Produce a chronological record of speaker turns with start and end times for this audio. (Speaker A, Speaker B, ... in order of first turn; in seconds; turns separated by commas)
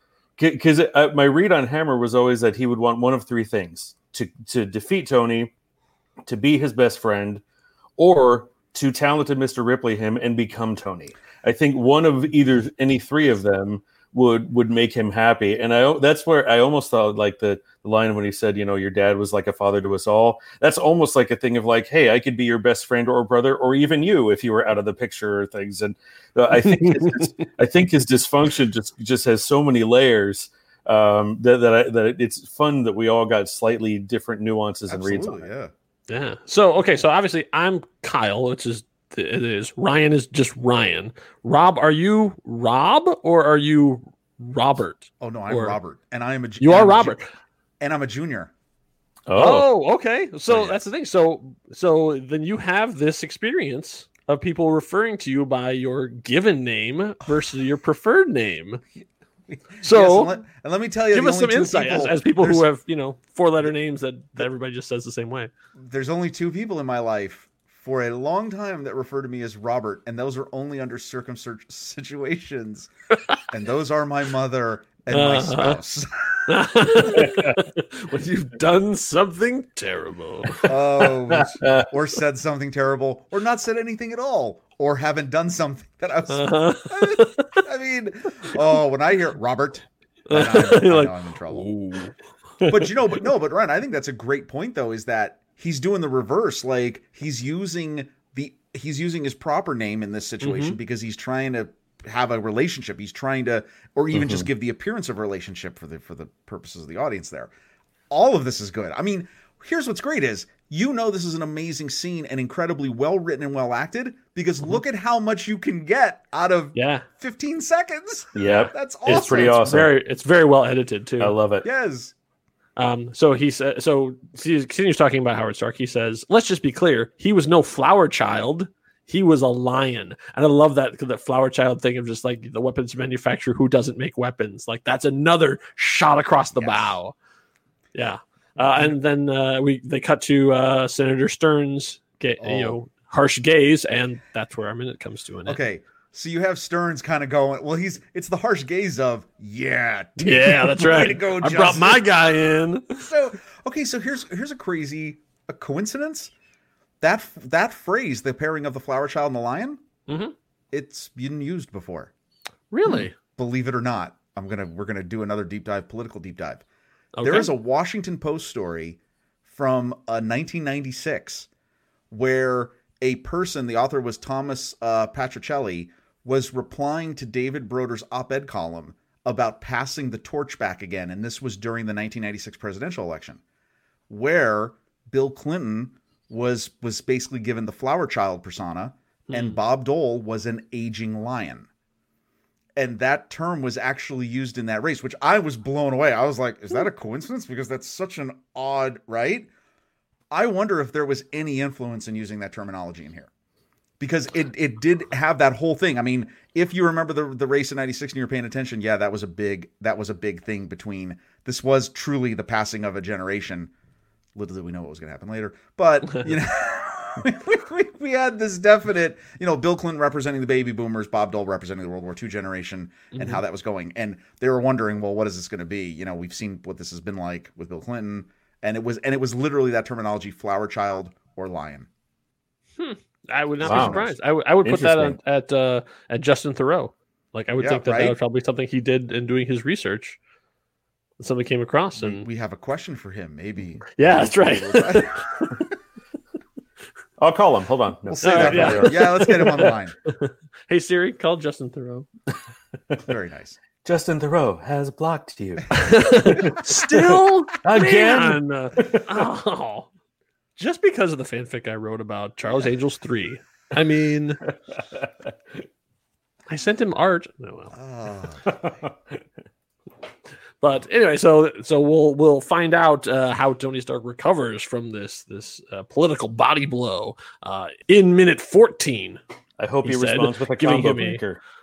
Speaker A: 0.4-5.5, Speaker A: 6.2-7.4, Speaker A: 8.0-35.5, Speaker B: 26.5-27.3, Speaker C: 34.9-35.7, Speaker B: 36.1-45.8, Speaker C: 45.2-47.2, Speaker B: 46.6-47.2, Speaker C: 47.8-48.5, Speaker A: 49.3-49.7, Speaker B: 49.4-58.8, Speaker C: 50.5-50.8, Speaker C: 59.5-62.7, Speaker B: 59.8-60.3, Speaker B: 61.1-65.5, Speaker C: 65.8-72.9, Speaker C: 73.5-76.7, Speaker B: 75.1-75.8, Speaker B: 76.5-80.7, Speaker A: 77.1-77.6, Speaker C: 80.6-91.7, Speaker A: 81.3-81.9, Speaker B: 86.3-87.5, Speaker B: 90.3-92.7, Speaker C: 92.7-107.5, Speaker B: 100.4-100.8, Speaker A: 104.1-104.5, Speaker C: 108.1-119.8, Speaker B: 116.7-117.0, Speaker A: 118.3-119.9, Speaker B: 119.0-121.3, Speaker A: 121.2-121.7, Speaker C: 121.6-122.1, Speaker B: 122.8-137.1, Speaker C: 136.5-137.0, Speaker B: 137.9-145.6, Speaker C: 142.4-142.8, Speaker C: 145.4-152.1, Speaker B: 150.2-153.1, Speaker C: 153.0-156.3, Speaker C: 157.0-159.8, Speaker B: 160.1-160.3, Speaker C: 160.7-162.1, Speaker B: 162.7-163.1, Speaker C: 162.8-166.6, Speaker B: 167.2-167.5, Speaker C: 167.2-171.5, Speaker C: 172.1-183.4, Speaker C: 184.1-191.7, Speaker B: 189.3-189.6, Speaker C: 192.8-199.5, Speaker C: 200.3-203.3, Speaker C: 204.0-213.7, Speaker C: 214.3-231.9, Speaker B: 223.1-223.4, Speaker B: 232.8-240.2, Speaker C: 233.6-234.1, Speaker A: 233.6-234.1, Speaker A: 234.6-235.2, Speaker C: 237.6-238.2, Speaker B: 241.2-242.2, Speaker C: 242.0-245.7, Speaker B: 244.0-245.6, Speaker A: 247.2-249.0, Speaker C: 248.2-249.9, Speaker B: 248.2-252.1, Speaker C: 253.0-253.6, Speaker A: 253.8-259.1, Speaker B: 255.7-259.9, Speaker B: 260.6-264.4, Speaker A: 264.8-265.1, Speaker B: 266.5-267.8, Speaker C: 267.7-268.5, Speaker A: 268.4-269.2, Speaker B: 270.6-279.2, Speaker A: 279.6-281.4, Speaker B: 279.8-281.2